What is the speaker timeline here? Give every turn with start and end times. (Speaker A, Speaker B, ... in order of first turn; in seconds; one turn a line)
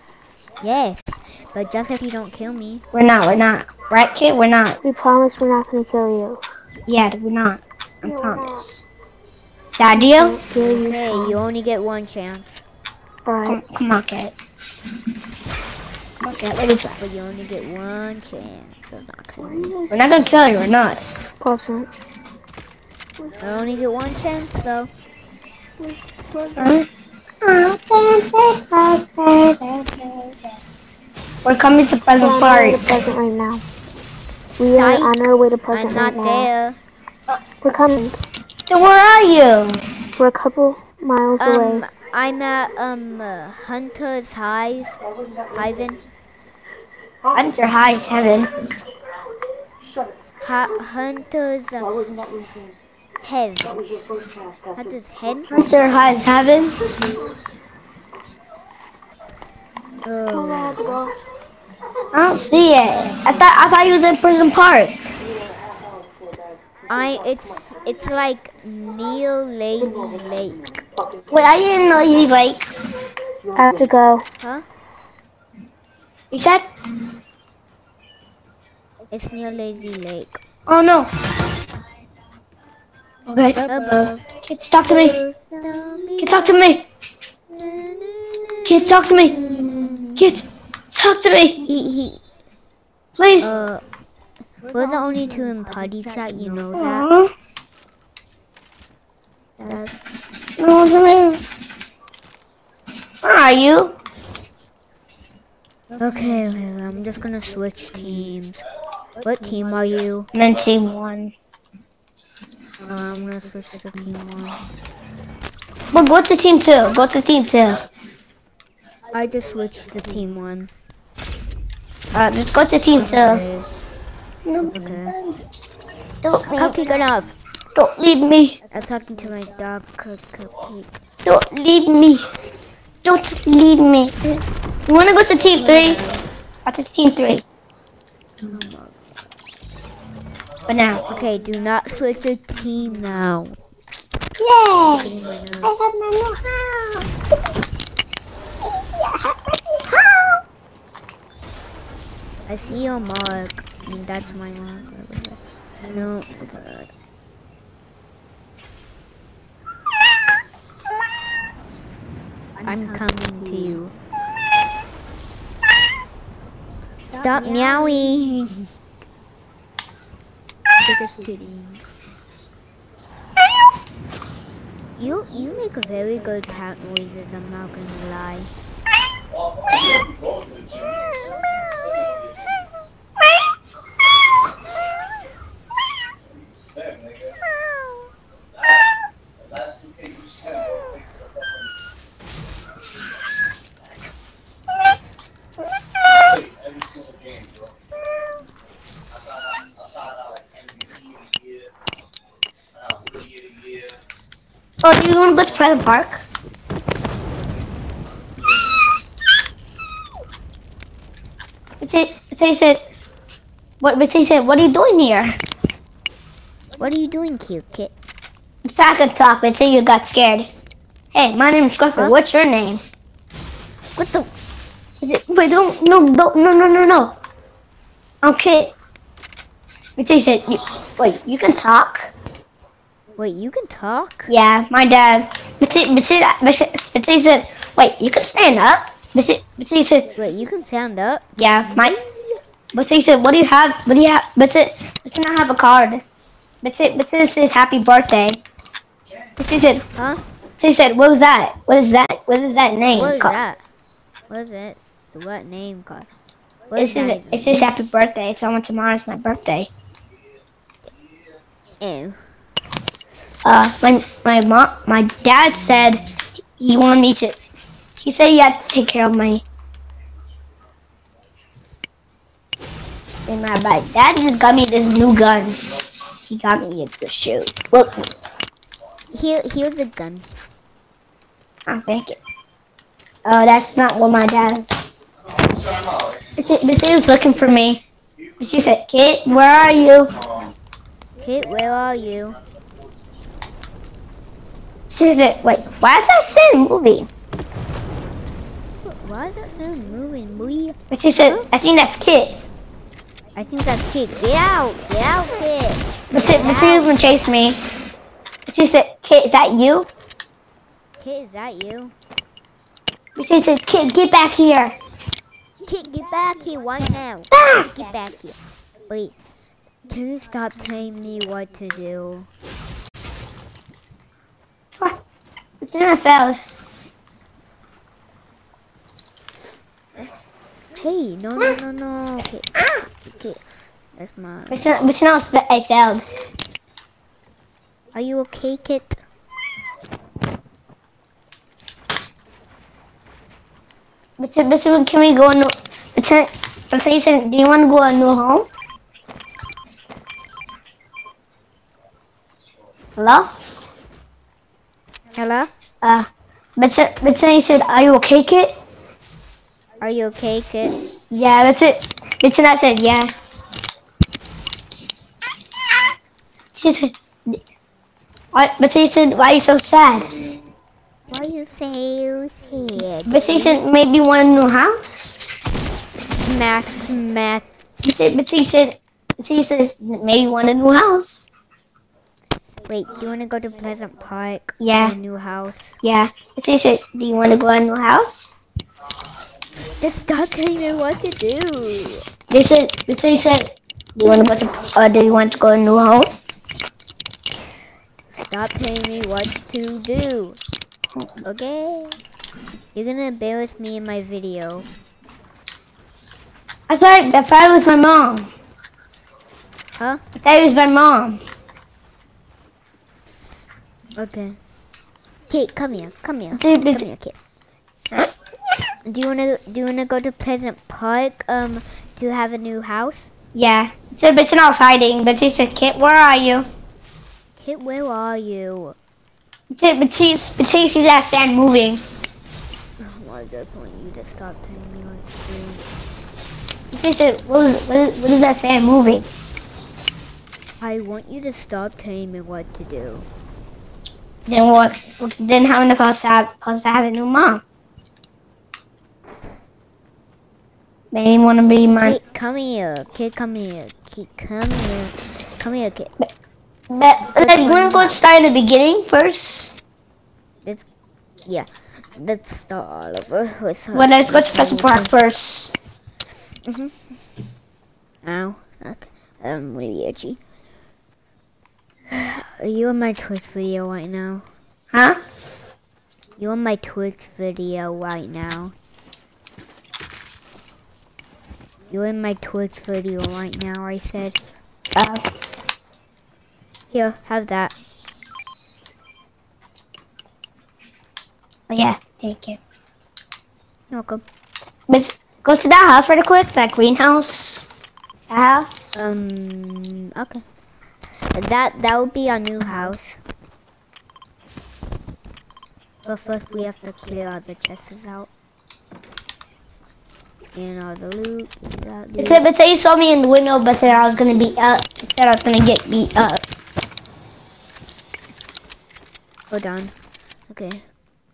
Speaker A: 0.6-2.8
Speaker B: 2.9-4.8
Speaker C: 4.8-6.4
Speaker B: 6.9-8.9
Speaker C: 8.1-8.5
Speaker B: 9.8-10.4
Speaker C: 9.9-11.4
Speaker A: 10.5-12.6
Speaker C: 13.3-13.6
Speaker B: 13.5-14.3
Speaker B: 16.2-17.0
Speaker A: 17.0-19.8
Speaker C: 19.4-19.9
Speaker B: 19.9-21.0
Speaker C: 21.4-21.9
Speaker A: 23.4-24.9
Speaker C: 26.3-26.7
Speaker B: 26.6-26.9
Speaker B: 27.4-30.4
Speaker B: 31.4-32.9
Speaker C: 32.2-33.6
Speaker C: 34.6-36.5
Speaker A: 34.6-36.8
Speaker C: 37.6-38.2
Speaker B: 38.7-39.8
Speaker C: 40.2-41.9
Speaker A: 41.4-45.0
Speaker A: 45.5-46.0
Speaker B: 47.3-48.5
Speaker A: 50.4-52.0
Speaker A: 53.2-53.8
Speaker A: 54.7-55.7
Speaker B: 55.5-56.8
Speaker A: 60.0-60.9
Speaker C: 60.5-61.1
Speaker B: 62.1-65.0
Speaker A: 66.9-70.8
Speaker B: 71.3-72.7
Speaker C: 73.5-74.2
Speaker B: 76.3-76.7
Speaker A: 79.1-80.4
Speaker B: 80.7-81.1
Speaker B: 83.3-85.2
Speaker A: 83.6-84.3
Speaker A: 84.8-86.6
Speaker B: 86.2-86.8
Speaker A: 87.5-90.2
Speaker B: 88.7-89.4
Speaker B: 90.2-91.6
Speaker A: 91.7-92.2
Speaker B: 93.2-93.5
Speaker A: 93.4-93.8
Speaker A: 94.7-97.1
Speaker B: 96.8-97.3
Speaker A: 99.6-99.9
Speaker B: 100.6-101.4
Speaker B: 103.2-104.0
Speaker A: 106.0-108.6
Speaker A: 109.2-110.3
Speaker B: 110.3-111.3
Speaker A: 112.8-114.6
Speaker B: 115.9-117.8
Speaker A: 119.1-120.7
Speaker B: 122.1-123.4
Speaker A: 122.9-123.8
Speaker B: 124.5-125.3
Speaker A: 124.7-125.2
Speaker B: 126.2-126.8
Speaker A: 126.6-127.3
Speaker B: 127.8-128.6
Speaker A: 128.7-130.9
Speaker B: 131.2-132.2
Speaker B: 133.0-136.0
Speaker A: 135.6-136.2
Speaker B: 136.7-137.4
Speaker A: 138.4-139.0
Speaker B: 140.7-141.0
Speaker A: 141.1-143.6
Speaker B: 144.4-145.1
Speaker A: 144.9-145.8
Speaker B: 145.6-147.1
Speaker B: 149.9-150.2
Speaker A: 152.5-156.9
Speaker A: 162.7-163.9
Speaker B: 167.1-167.8
Speaker A: 167.1-168.6
Speaker A: 170.8-171.8
Speaker A: 175.0-178.5
Speaker B: 204.8-206.2
Speaker B: 211.8-212.8
Speaker B: 213.8-215.4
Speaker A: 216.8-217.9
Speaker B: 218.7-220.5
Speaker B: 221.1-222.8
Speaker A: 224.0-224.3
Speaker B: 225.0-227.1
Speaker B: 228.2-228.7
Speaker B: 230.0-232.1
Speaker A: 233.2-234.3
Speaker B: 234.3-240.1
Speaker A: 240.2-242.1
Speaker B: 241.4-242.0
Speaker B: 242.7-246.0
Speaker B: 246.6-248.4
Speaker B: 249.4-249.9
Speaker A: 250.0-250.2
Speaker B: 250.6-253.4
Speaker A: 252.9-253.6
Speaker A: 254.3-256.1
Speaker A: 256.7-257.8
Speaker B: 256.8-259.7
Speaker A: 261.8-262.2
Speaker B: 263.4-266.0
Speaker B: 266.6-267.4
Speaker B: 268.0-269.4
Speaker B: 273.3-275.6
Speaker B: 276.3-278.0
Speaker A: 279.1-280.3
Speaker B: 281.7-282.2
Speaker B: 283.2-284.7
Speaker B: 286.4-287.8
Speaker B: 288.4-290.1
Speaker A: 291.2-292.4
Speaker B: 294.9-297.1
Speaker A: 298.8-301.5
Speaker B: 300.9-302.4
Speaker A: 303.4-306.9
Speaker B: 306.1-307.6
Speaker B: 308.5-309.9
Speaker A: 311.0-311.9
Speaker B: 313.2-314.8
Speaker A: 315.6-318.4
Speaker B: 317.3-317.7
Speaker A: 318.9-319.1
Speaker A: 319.9-322.3
Speaker B: 325.6-326.4
Speaker A: 330.7-334.6
Speaker B: 334.5-336.1
Speaker A: 337.9-339.0
Speaker B: 344.2-348.5
Speaker B: 353.0-353.3
Speaker A: 355.1-355.5
Speaker B: 355.8-358.5
Speaker A: 359.8-360.8
Speaker B: 361.1-363.1
Speaker B: 366.6-367.4
Speaker B: 368.3-370.2
Speaker A: 371.1-373.6
Speaker B: 373.1-375.2
Speaker A: 376.2-377.4
Speaker B: 377.8-381.3
Speaker A: 382.7-385.8
Speaker B: 384.6-385.0
Speaker B: 385.8-388.4
Speaker A: 389.8-392.1
Speaker B: 392.3-396.1
Speaker A: 398.1-400.4
Speaker A: 401.2-402.0
Speaker A: 402.8-404.7
Speaker B: 406.7-408.3
Speaker B: 410.2-411.2
Speaker A: 414.0-414.4
Speaker A: 415.3-417.1
Speaker B: 416.4-416.8
Speaker A: 418.9-423.1
Speaker B: 423.4-426.5
Speaker A: 427.4-428.8
Speaker B: 429.5-431.8
Speaker A: 432.8-435.7
Speaker B: 436.7-439.1
Speaker A: 440.6-443.1
Speaker B: 444.3-447.4
Speaker B: 450.9-452.0
Speaker A: 451.8-455.9
Speaker B: 456.7-459.5
Speaker A: 457.2-458.0
Speaker A: 461.3-464.9
Speaker B: 463.7-465.5
Speaker A: 466.5-466.9
Speaker A: 468.0-470.2
Speaker A: 471.9-474.3
Speaker B: 474.7-475.0
Speaker A: 476.2-478.5
Speaker A: 481.7-484.2
Speaker B: 484.8-485.0
Speaker A: 486.7-487.5
Speaker B: 491.5-492.4
Speaker A: 493.7-494.0
Speaker B: 494.7-497.4
Speaker B: 498.1-498.8
Speaker A: 498.8-500.2
Speaker A: 501.1-503.0
Speaker A: 505.9-508.1
Speaker A: 510.4-512.2
Speaker B: 512.0-516.2
Speaker A: 519.3-519.7
Speaker A: 520.3-520.6